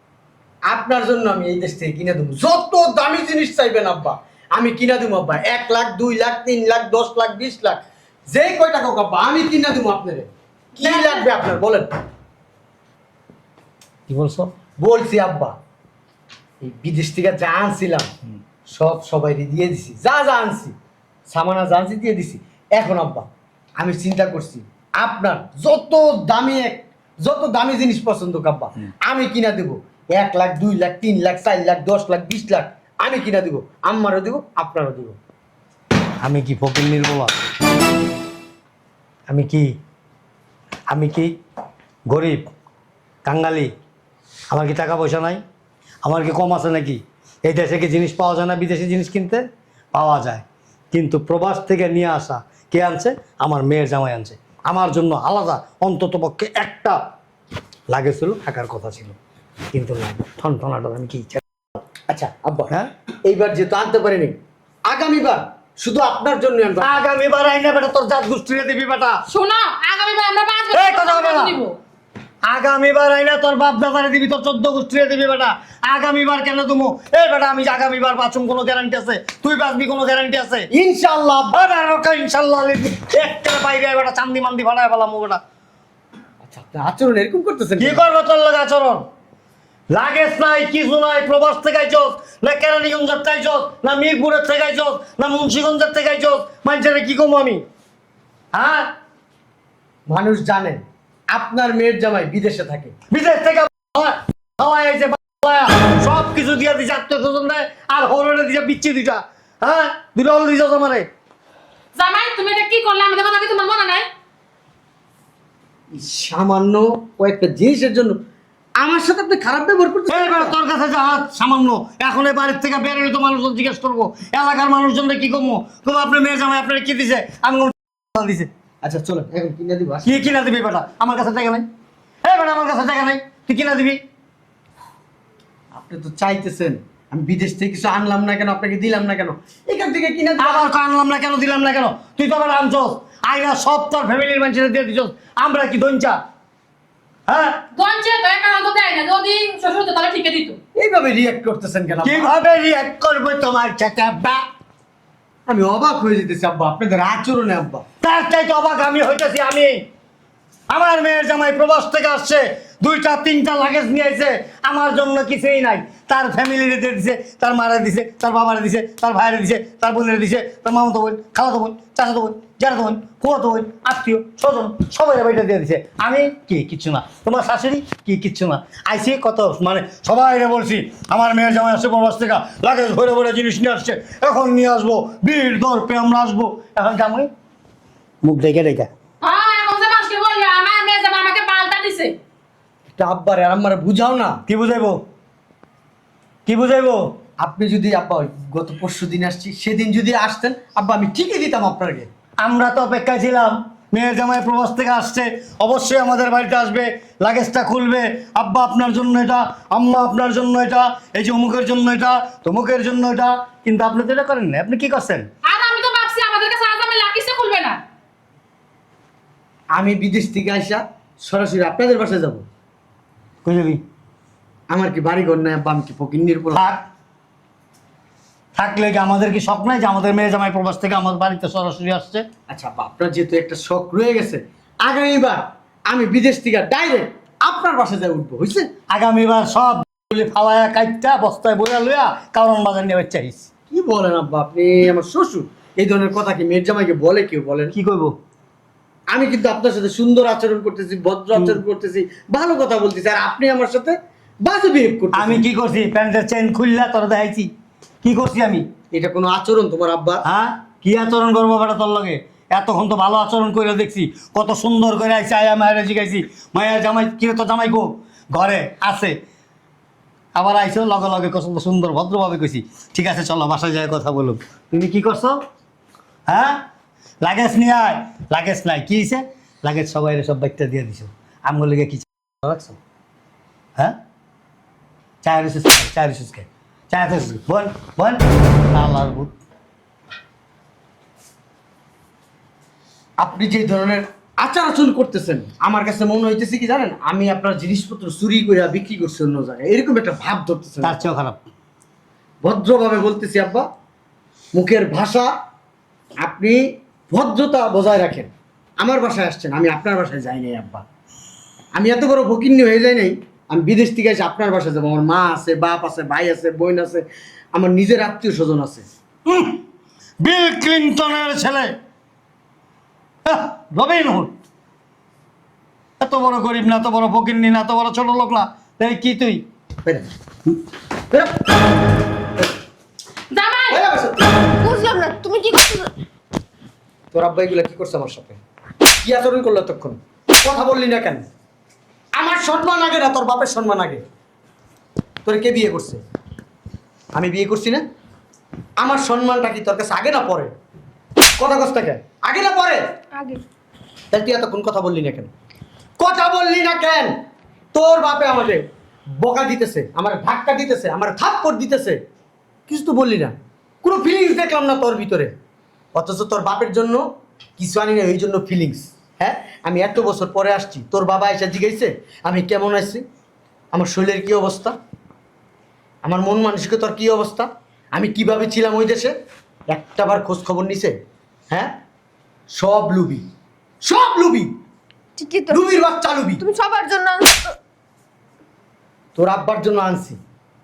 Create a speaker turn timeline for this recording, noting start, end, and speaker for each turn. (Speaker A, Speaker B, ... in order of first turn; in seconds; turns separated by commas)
Speaker A: 0.7-11.9, Speaker B: 14.1-14.5, Speaker A: 14.8-15.5, Speaker A: 16.6-18.1, Speaker A: 18.7-20.7, Speaker A: 21.3-23.2, Speaker A: 23.8-35.2, Speaker B: 36.2-37.3, Speaker B: 39.3-39.7, Speaker B: 40.9-41.3, Speaker B: 42.1-42.4, Speaker B: 43.2-43.7, Speaker B: 44.5-45.4, Speaker B: 46.0-57.0, Speaker B: 57.9-59.1, Speaker B: 59.7-61.4, Speaker A: 62.1-62.7, Speaker A: 63.2-64.3, Speaker A: 64.8-66.9, Speaker B: 66.8-69.2, Speaker C: 69.3-71.8, Speaker B: 70.7-71.5, Speaker B: 72.5-80.7, Speaker A: 80.7-81.6, Speaker B: 81.5-85.4, Speaker A: 86.4-88.0, Speaker B: 87.8-89.0, Speaker B: 89.9-97.6, Speaker B: 98.5-98.9, Speaker A: 100.1-102.9, Speaker B: 103.1-111.1, Speaker C: 112.0-114.1, Speaker A: 115.9-118.2, Speaker A: 118.8-120.5, Speaker B: 120.1-128.5, Speaker A: 128.8-130.2, Speaker B: 130.0-131.6, Speaker B: 132.2-134.0, Speaker A: 135.7-140.7, Speaker B: 140.4-146.2, Speaker B: 147.3-147.6, Speaker C: 147.8-150.6, Speaker A: 150.8-152.3, Speaker B: 152.0-154.4, Speaker A: 155.5-157.8, Speaker B: 158.0-159.8, Speaker B: 160.7-187.3, Speaker B: 188.2-188.9, Speaker C: 189.2-192.2, Speaker A: 192.9-194.4, Speaker B: 194.5-195.0, Speaker B: 196.4-197.1, Speaker A: 197.4-202.1, Speaker B: 202.4-215.3, Speaker C: 215.4-217.8, Speaker A: 219.7-222.4, Speaker B: 223.4-223.8, Speaker A: 224.7-226.6, Speaker B: 226.5-226.8, Speaker B: 228.5-232.2, Speaker A: 232.5-238.7, Speaker B: 238.9-243.5, Speaker A: 243.7-247.7, Speaker B: 247.7-248.1, Speaker A: 249.1-255.4, Speaker B: 255.1-257.5, Speaker B: 258.0-258.6, Speaker A: 258.9-260.2, Speaker B: 260.2-269.2, Speaker B: 270.3-275.4, Speaker B: 276.3-276.6, Speaker B: 277.2-282.7, Speaker B: 285.2-289.3, Speaker A: 293.2-301.0, Speaker B: 300.8-301.4, Speaker A: 302.4-303.7, Speaker A: 304.5-305.3, Speaker A: 306.2-310.8, Speaker A: 311.7-318.8, Speaker B: 319.3-319.6, Speaker B: 320.2-321.8, Speaker B: 323.2-324.3, Speaker B: 326.0-329.4, Speaker C: 333.3-333.8, Speaker A: 333.7-334.3, Speaker D: 334.5-335.9, Speaker A: 337.1-338.4, Speaker A: 339.0-341.2, Speaker A: 342.1-344.0, Speaker A: 345.2-346.0, Speaker A: 347.1-347.8, Speaker A: 348.8-350.5, Speaker A: 351.4-352.8, Speaker D: 353.1-353.4, Speaker A: 354.1-355.3, Speaker A: 356.0-357.1, Speaker A: 357.7-358.6, Speaker A: 359.1-362.0, Speaker A: 362.7-365.3, Speaker A: 365.9-367.0, Speaker A: 367.6-373.0, Speaker A: 373.7-374.8, Speaker A: 376.0-379.1, Speaker A: 379.7-380.9, Speaker A: 382.5-383.2, Speaker A: 383.8-384.5, Speaker D: 385.2-385.6, Speaker A: 385.5-386.4, Speaker D: 386.4-387.6, Speaker A: 389.1-390.2